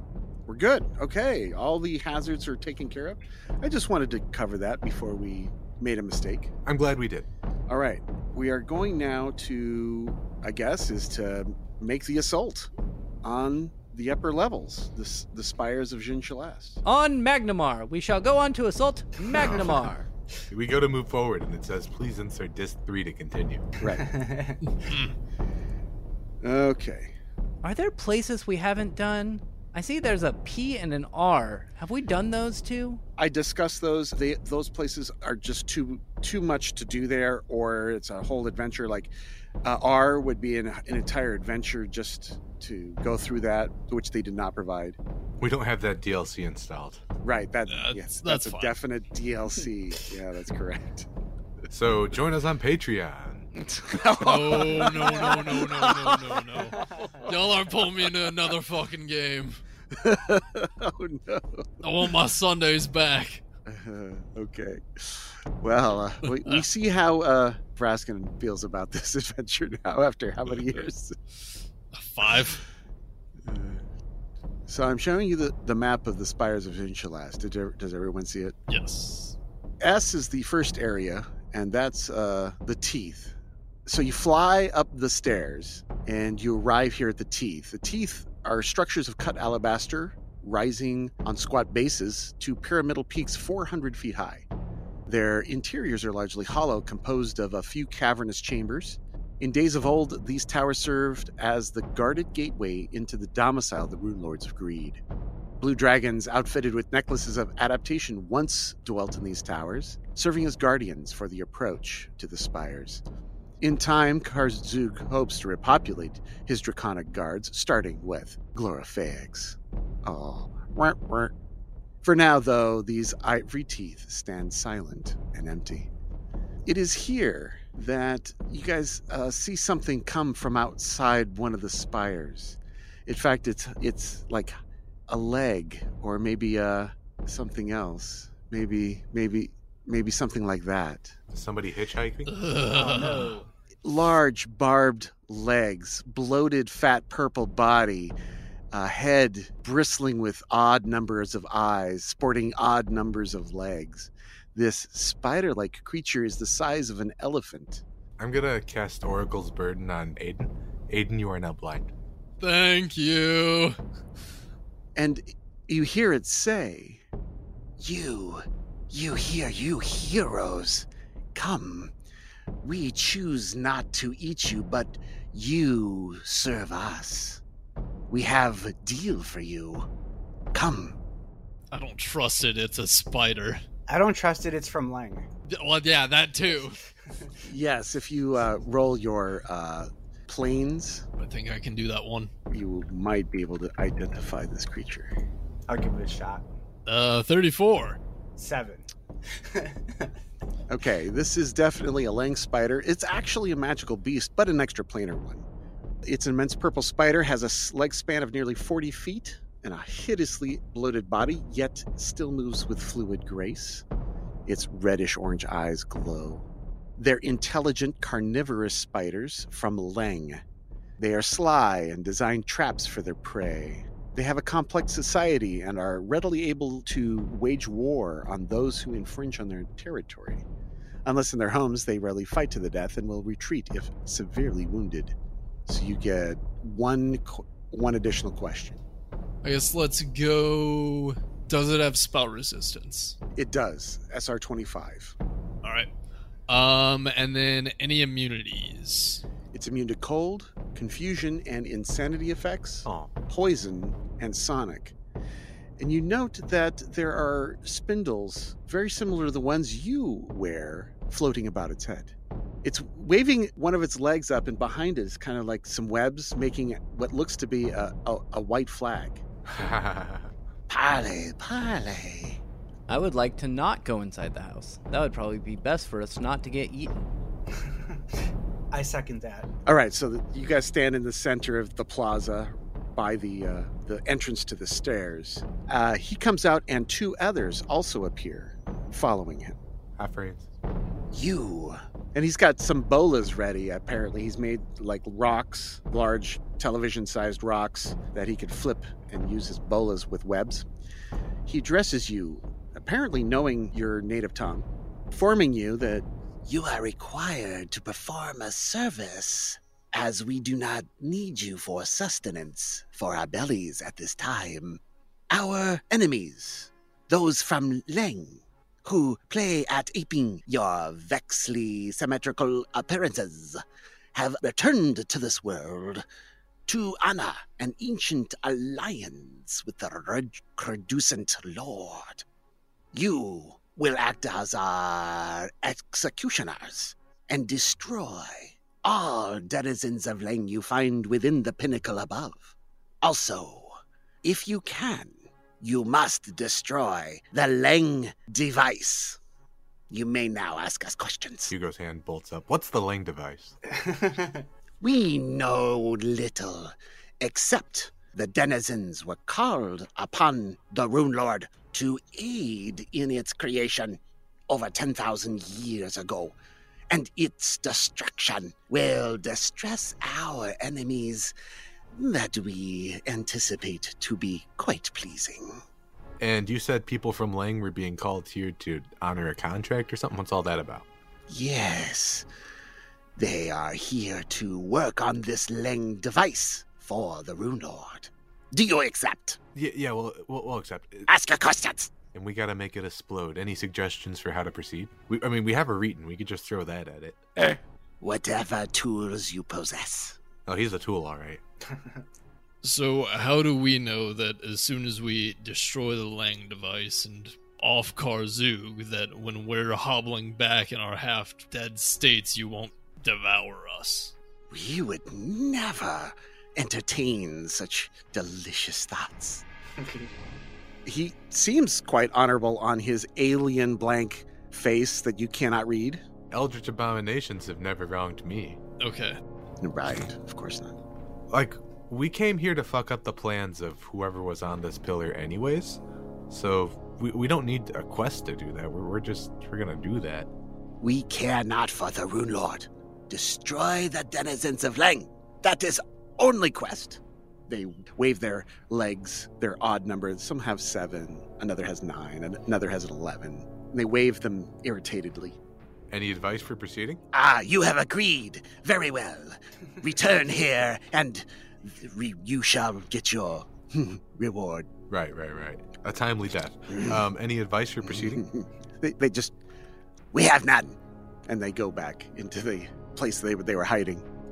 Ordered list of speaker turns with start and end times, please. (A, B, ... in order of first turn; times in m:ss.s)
0:00.4-0:06.5 A
0:06.6-0:07.3 B
0:07.7-0:12.7 A
0:13.2-0:16.8 A
0:16.8-0:20.1 C
0:20.5-0:23.6 B
0:23.8-0:24.6 D
0:24.6-0:25.1 E
0:26.4-0:27.1 A
0:27.6-0:33.0 C
0:33.2-0:39.1 A
0:39.6-0:45.0 A
0:45.4-0:47.0 B
0:47.2-0:51.1 A
0:47.7-0:48.8 E
0:51.7-0:53.5 B
0:53.6-0:57.3 A
0:54.2-0:59.6 E
0:59.9-1:01.7 A
1:01.8-1:03.4 E
1:03.7-1:11.2 A
1:06.3-1:06.6 E
1:11.9-1:12.6 E
1:13.4-1:13.8 A
1:14.7-1:18.6 A
1:18.7-1:19.4 E
1:19.8-1:23.3 A
1:23.8-1:34.5 A
1:35.0-1:45.0 A
1:45.6-1:53.0 A
1:53.6-2:01.3 A
2:02.0-2:05.9 A
2:06.6-2:14.6 A
2:15.1-2:21.2 A
2:21.3-2:22.3 B
2:22.3-2:23.4 E
2:22.7-2:23.5 D
2:23.8-2:28.2 A
2:28.7-2:37.8 A
2:38.2-2:41.9 B
2:42.4-2:43.8 E
2:45.0-2:47.0 A
2:47.8-2:51.9 A
2:52.6-2:57.4 A
2:58.1-2:59.9 A
3:00.5-3:01.0 A
3:01.7-3:03.6 E
3:03.9-3:05.2 D
3:05.5-3:06.8 E
3:07.4-3:11.0 A
3:11.2-3:12.3 E
3:12.5-3:15.1 A
3:15.7-3:16.4 D
3:16.8-3:18.0 E
3:18.4-3:18.9 D
3:19.5-3:20.1 D
3:20.7-3:25.4 A
3:26.0-3:33.8 A
3:34.4-3:36.4 A
3:37.0-3:40.4 A
3:41.0-3:50.4 A
3:51.0-3:55.1 A
3:55.7-3:58.8 A
3:59.4-4:03.2 E
4:03.4-4:05.1 A
4:05.6-4:05.9 E
4:06.5-4:09.2 E
4:09.5-4:14.9 A
4:12.8-4:13.1 B
4:15.8-4:29.2 A
4:29.4-4:30.3 B
4:30.7-4:32.4 A
4:32.9-4:37.0 C
4:38.7-4:39.5 D
4:39.6-4:49.6 A
4:50.0-4:50.5 B
4:51.1-5:00.7 A
5:01.4-5:23.6 A
5:24.1-5:26.0 A
5:26.7-5:32.2 A
5:32.9-5:49.2 A
5:49.9-5:51.5 A
5:51.5-5:53.5 B
5:53.8-5:54.4 D
5:54.8-6:06.4 A
6:06.9-6:11.3 A
6:11.9-6:15.6 A
6:16.2-6:20.8 B
6:21.3-6:22.2 A
6:23.2-6:29.4 A
6:29.5-6:31.1 B
6:31.1-6:31.9 A
6:32.1-6:37.2 B
6:37.4-6:40.2 A
6:40.4-6:41.4 B
6:42.6-6:54.1 E
6:54.5-6:59.4 A
7:00.8-7:06.0 A
7:06.3-7:08.6 B
7:08.8-7:09.2 E
7:09.6-7:10.8 A
7:11.3-7:20.3 B
7:20.8-7:35.4 A
7:35.9-7:37.0 B
7:37.1-7:44.7 A
7:44.9-7:48.2 B
7:47.8-7:49.3 A
7:50.1-7:54.0 A